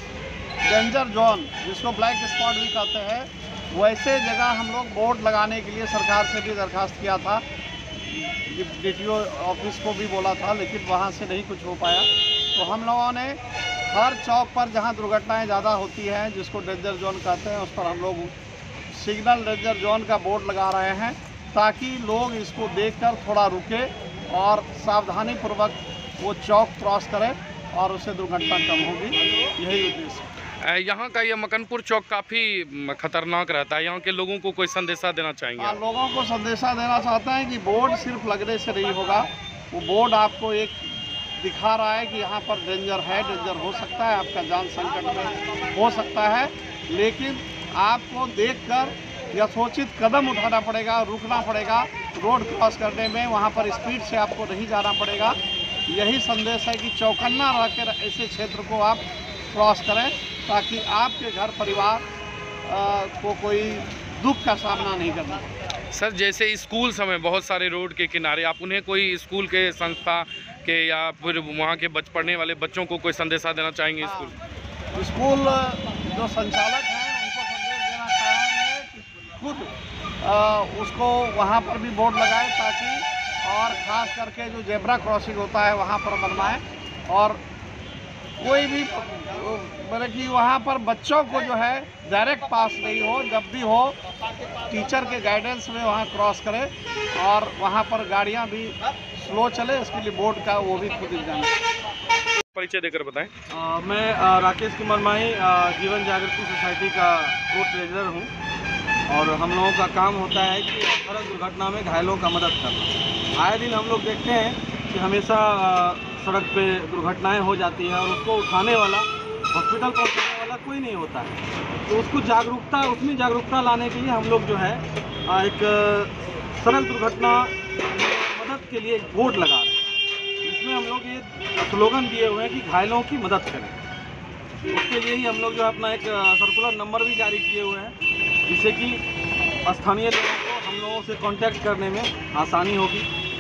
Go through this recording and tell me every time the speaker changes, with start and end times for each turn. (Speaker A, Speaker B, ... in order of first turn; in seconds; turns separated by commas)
Speaker A: 0.7-7.4, Speaker A: 8.0-13.4, Speaker A: 13.9-18.3, Speaker A: 18.9-30.3, Speaker B: 30.6-35.8, Speaker A: 35.6-55.4, Speaker A: 55.9-62.0, Speaker A: 62.7-65.5, Speaker B: 65.9-74.3, Speaker A: 74.0-74.3, Speaker A: 75.0-87.4, Speaker A: 88.4-94.0, Speaker A: 94.7-101.6, Speaker B: 102.4-103.3, Speaker C: 103.5-108.3, Speaker C: 109.1-129.8, Speaker C: 130.4-133.8, Speaker C: 134.7-137.9, Speaker C: 138.5-139.0, Speaker C: 139.7-143.1